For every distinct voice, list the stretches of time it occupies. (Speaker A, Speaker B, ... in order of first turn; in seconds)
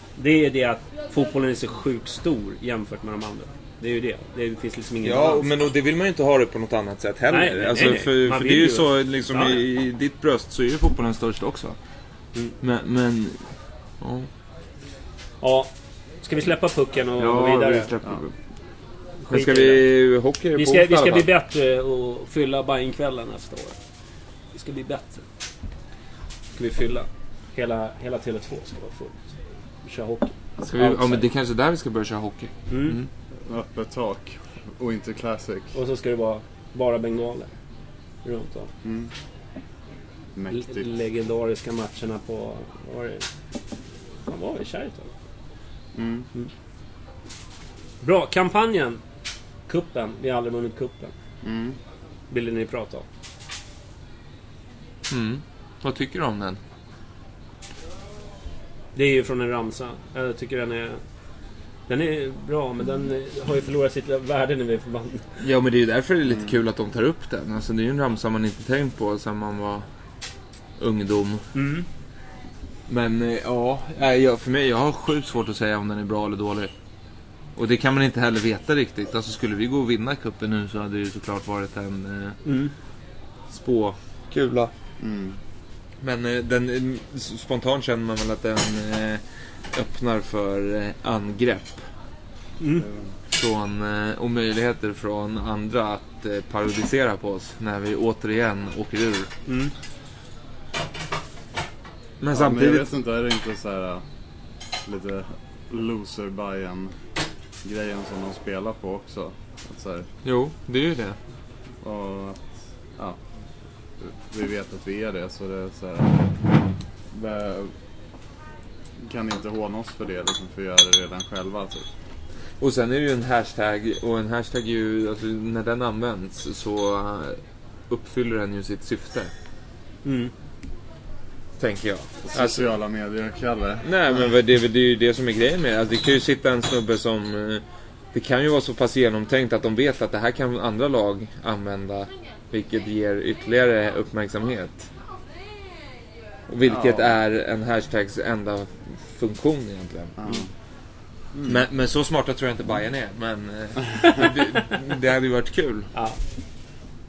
Speaker A: 0.2-5.5, 7.3-9.6, 15.4-15.7, 16.2-17.9, 19.3-19.9, 20.6-23.8, 24.5-25.3, 26.6-31.3, 32.7-33.0, 35.7-37.5, 38.2-38.7, 40.5-43.3, 44.3-45.1, 48.0-49.0, 49.7-51.1, 52.3-53.0, 59.0-61.0, 61.9-65.3, 71.5-71.9, 82.5-82.7, 92.6-92.9, 99.5-99.7, 130.1-130.3
Speaker B: 5.0-11.8, 12.6-14.3, 17.2-18.3, 19.3-21.3, 30.6-33.1, 55.1-56.6, 65.4-69.9, 70.8-71.5, 72.9-76.7, 77.6-82.4, 83.5-84.7, 86.0-91.9, 93.3-99.3, 102.2-102.9, 110.2-111.2, 122.6-129.3, 131.6-132.7, 133.8-137.6, 138.1-144.9, 146.5-150.2, 151.5-155.9
Speaker C: 33.5-35.7, 38.8-39.1, 40.4-40.9, 46.0-46.3, 51.4-51.8, 85.0-85.4, 92.8-93.1, 102.3-104.0, 104.8-107.0, 107.6-110.1, 111.8-113.2, 114.0-116.4, 117.1-117.7, 119.0-121.9, 132.3-134.2, 146.7-147.1, 150.2-150.5, 151.3-151.6